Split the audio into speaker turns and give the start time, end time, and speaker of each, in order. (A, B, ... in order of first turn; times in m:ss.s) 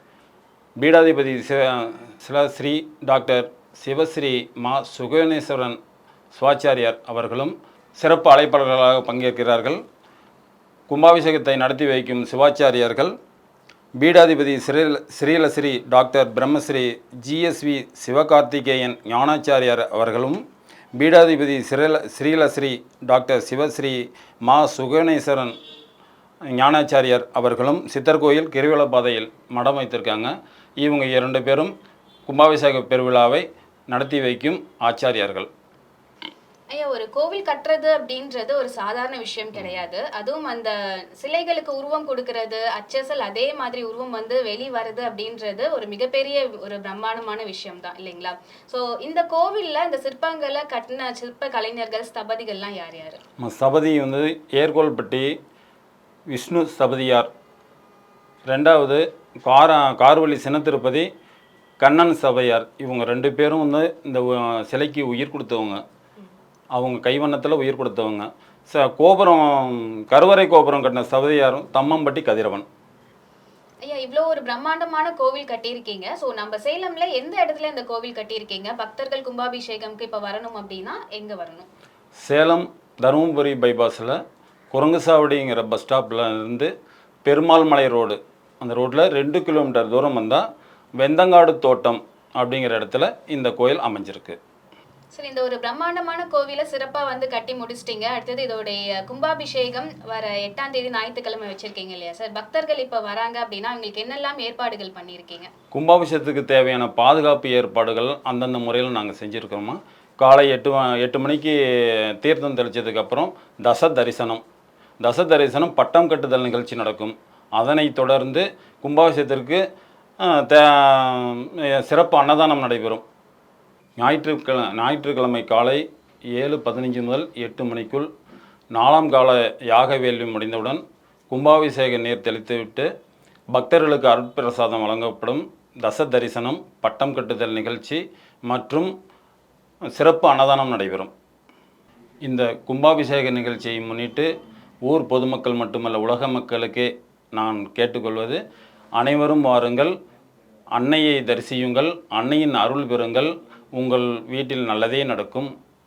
0:00.8-0:05.8 A
0:06.3-0:09.8 A
0:10.9-0:13.1 A
0:14.0-0:20.4 A
0:21.0-0:25.5 A
0:26.5-0:31.7 A
0:32.3-0:35.5 A
0:36.7-0:53.2 B
0:53.4-0:55.3 A
0:56.3-0:57.3 A
0:58.5-1:01.1 A
1:01.8-1:05.8 A
1:06.7-1:12.6 A
1:13.8-1:21.7 B
1:22.2-1:24.2 A
1:24.7-1:26.7 A
1:27.2-1:30.4 A
1:31.0-1:34.4 A
1:35.1-1:45.5 B
1:45.7-1:54.4 A
1:55.0-1:59.6 A
2:00.2-2:03.0 A
2:04.0-2:08.1 A
2:08.7-2:12.9 A
2:13.5-2:18.9 A
2:19.9-2:21.1 A
2:22.2-2:24.3 A
2:24.8-2:28.4 A
2:29.0-2:29.9 A
2:30.7-2:35.5 A